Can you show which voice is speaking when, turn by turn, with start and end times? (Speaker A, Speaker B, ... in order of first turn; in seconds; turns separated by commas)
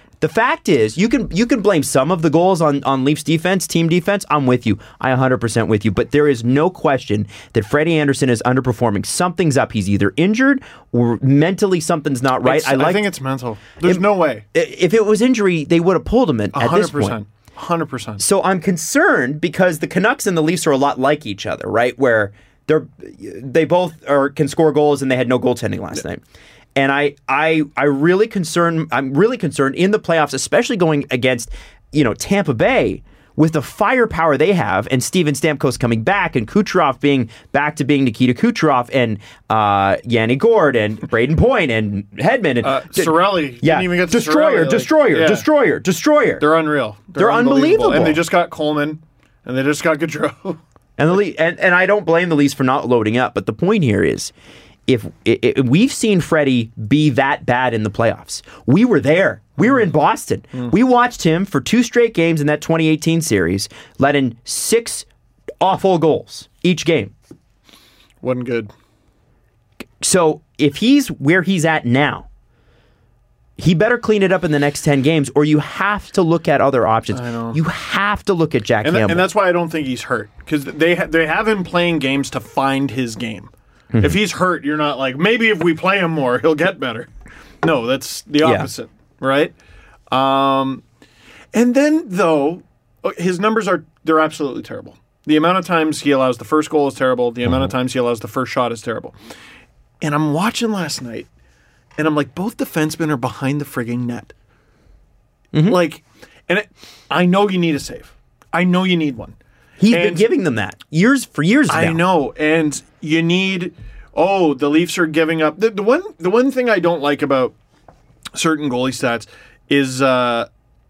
Speaker A: 0.2-13.1, Speaker B: 12.4-14.4, Speaker A: 13.8-17.2, Speaker B: 16.5-18.2, Speaker A: 18.2-26.2, Speaker A: 26.8-46.5, Speaker B: 42.6-45.5, Speaker B: 46.4-50.6, Speaker A: 47.2-48.2, Speaker A: 51.0-54.3, Speaker A: 54.9-65.0, Speaker A: 65.6-67.1, Speaker B: 68.2-68.7, Speaker A: 70.0-72.3, Speaker A: 73.6-79.3, Speaker B: 77.1-77.6, Speaker B: 78.8-87.1, Speaker A: 83.9-84.2, Speaker B: 87.6-89.5, Speaker A: 88.4-88.7, Speaker B: 90.1-90.8, Speaker B: 91.5-99.1, Speaker B: 100.0-101.3, Speaker B: 102.0-104.3, Speaker A: 105.5-105.8, Speaker B: 105.6-109.3, Speaker A: 109.8-112.0, Speaker B: 109.9-110.2, Speaker B: 111.7-117.5, Speaker B: 118.3-120.5